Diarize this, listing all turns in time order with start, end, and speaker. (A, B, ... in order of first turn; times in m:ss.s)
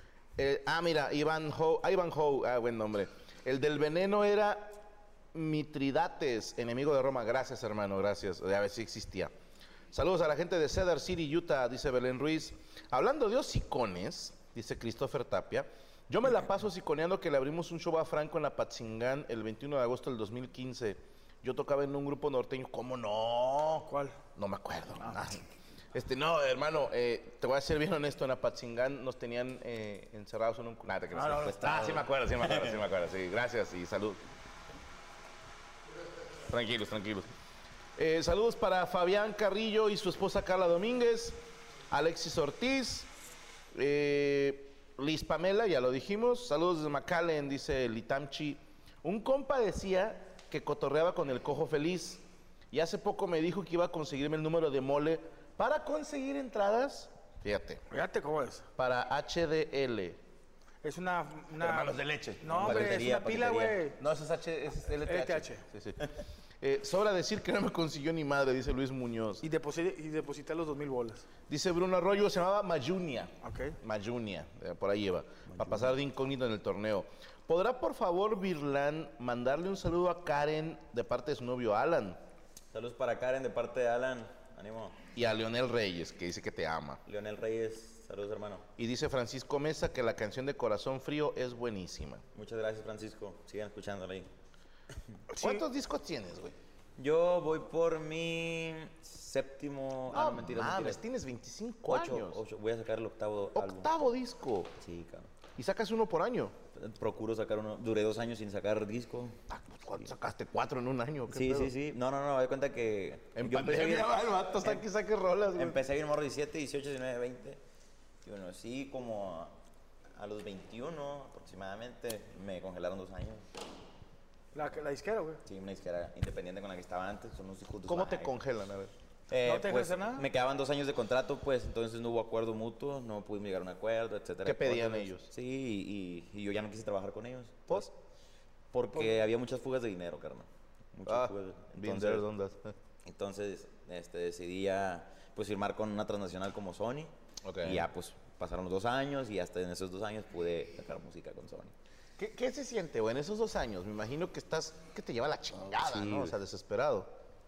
0:00.4-0:04.8 A
0:05.3-0:09.3 A
0:09.9-0:25.4 A
0:23.8-0:24.2 B
0:25.9-0:34.2 A
0:31.1-0:31.9 B
0:31.4-0:32.8 C
0:36.5-0:37.3 A
0:38.0-0:41.4 A
0:41.9-0:43.1 A
0:43.7-0:57.8 A
0:57.9-0:58.7 B
0:58.8-1:00.2 A
1:00.8-1:04.0 B
1:01.6-1:03.0 A
1:02.5-1:03.8 C
1:04.0-1:06.0 A
1:05.0-1:05.6 B
1:06.6-1:09.4 A
1:09.4-1:11.2 B
1:11.5-1:22.2 A
1:13.4-1:13.8 B
1:15.5-1:16.0 C
1:22.7-1:25.0 C
1:25.2-1:27.0 A
1:27.0-1:28.7 C
1:28.8-1:32.2 A
1:32.4-1:34.3 C
1:35.3-1:35.6 B
1:35.4-1:36.6 A
1:37.0-1:41.0 C
1:40.1-1:42.4 A
1:41.9-1:43.9 C
1:43.6-1:44.7 A
1:44.8-1:45.3 C
1:45.6-1:46.5 A
1:46.8-1:49.4 C
1:49.5-1:51.7 A
1:51.3-1:54.8 C
1:53.4-1:55.8 A
1:55.6-1:57.6 C
1:58.2-1:59.6 C
2:00.2-2:03.4 C
2:04.5-2:05.4 B
2:05.4-2:08.3 C
2:07.9-2:08.9 A
2:09.3-2:17.9 C
2:09.4-2:10.3 B
2:14.4-2:15.3 A
2:18.7-2:22.3 C
2:21.1-2:22.7 A
2:23.0-2:31.7 C
2:27.4-2:27.9 A
2:32.2-2:37.1 A
2:35.8-2:36.4 C